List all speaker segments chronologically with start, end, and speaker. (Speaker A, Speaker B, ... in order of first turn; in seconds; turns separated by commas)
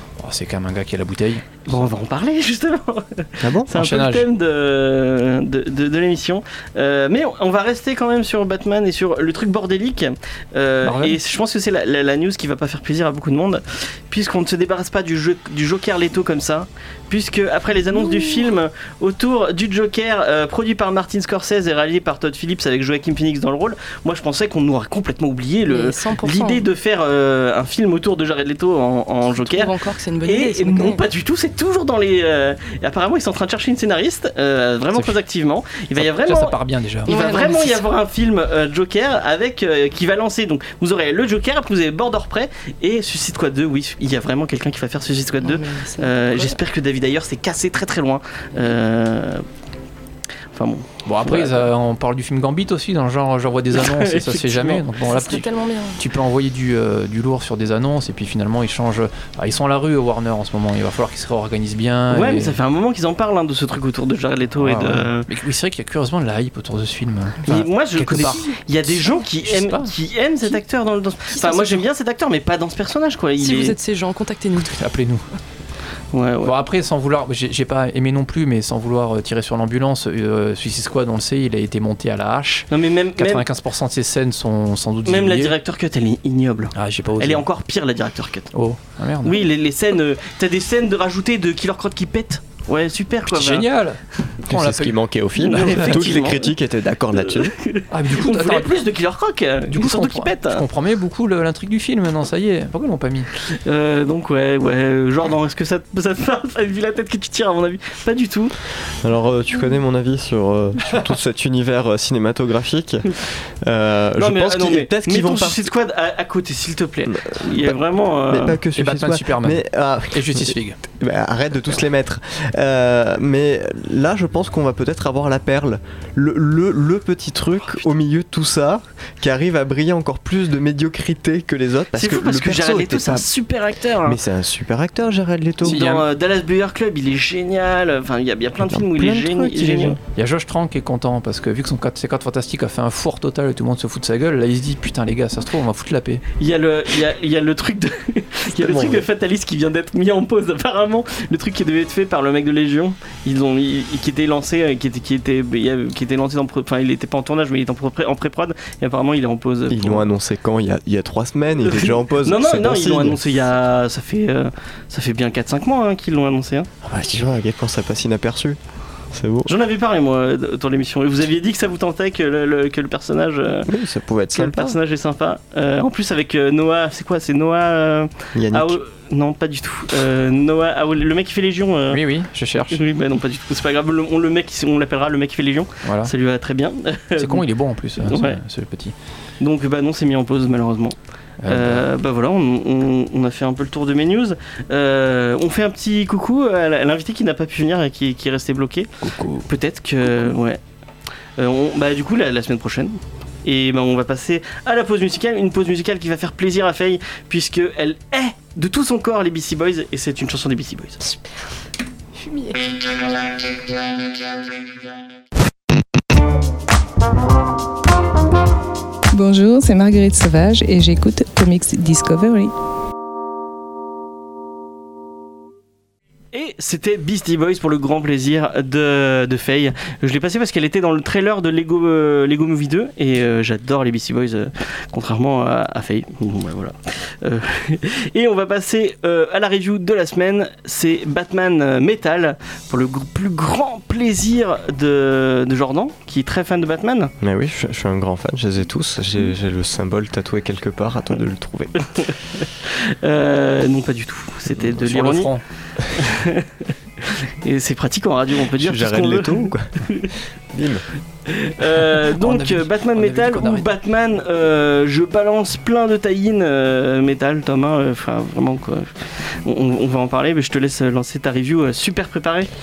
Speaker A: 0.2-1.9, Speaker B: 1.7-49.5, Speaker C: 3.4-3.7, Speaker A: 3.7-4.3, Speaker A: 10.8-11.2, Speaker D: 25.7-26.6, Speaker D: 29.3-31.0, Speaker A: 36.0-37.1, Speaker D: 37.1-37.8, Speaker D: 45.4-46.5, Speaker B: 50.5-51.7, Speaker A: 51.0-55.5, Speaker B: 53.7-54.9, Speaker D: 55.0-56.0, Speaker A: 56.0-62.6, Speaker B: 62.1-65.3, Speaker A: 64.6-68.6, Speaker B: 67.5-73.8, Speaker A: 69.4-69.9, Speaker D: 71.3-71.8, Speaker D: 73.4-74.8, Speaker A: 74.7-75.2, Speaker B: 76.1-76.6, Speaker A: 76.4-85.5, Speaker B: 82.7-83.4, Speaker B: 85.0-88.5, Speaker A: 86.7-87.4, Speaker A: 88.5-89.4, Speaker B: 89.2-93.7, Speaker A: 93.3-96.1, Speaker C: 94.5-97.5, Speaker B: 95.4-96.6, Speaker B: 97.1-100.6, Speaker A: 97.9-98.8, Speaker A: 99.7-103.3, Speaker B: 103.5-108.5, Speaker C: 109.0-113.1, Speaker C: 113.6-115.7, Speaker B: 114.2-118.6, Speaker C: 117.1-117.8, Speaker C: 118.3-133.3, Speaker A: 118.7-120.8, Speaker B: 131.9-134.2, Speaker C: 134.0-135.8, Speaker A: 135.6-136.0, Speaker B: 135.6-140.0, Speaker C: 138.6-140.0, Speaker A: 140.1-146.2, Speaker B: 146.4-160.1, Speaker C: 148.5-149.1, Speaker C: 159.7-163.2, Speaker B: 161.6-166.7, Speaker C: 166.8-168.6, Speaker C: 169.1-169.5, Speaker B: 169.4-173.7, Speaker C: 173.7-174.8, Speaker B: 174.3-182.0, Speaker C: 178.3-178.8, Speaker A: 181.9-182.8, Speaker B: 182.7-187.4, Speaker A: 185.8-186.1, Speaker A: 187.2-188.9, Speaker B: 188.0-188.4, Speaker B: 189.4-190.9, Speaker A: 191.4-191.8, Speaker B: 191.5-198.9, Speaker A: 199.1-199.4, Speaker B: 199.4-200.6, Speaker B: 201.4-211.0, Speaker D: 212.2-212.6, Speaker E: 219.1-222.5, Speaker B: 226.3-247.1, Speaker C: 247.2-251.8, Speaker B: 252.0-255.3, Speaker A: 254.6-255.4, Speaker B: 255.9-260.1, Speaker C: 258.6-259.8, Speaker C: 260.5-260.9, Speaker B: 261.3-272.5, Speaker A: 262.1-263.7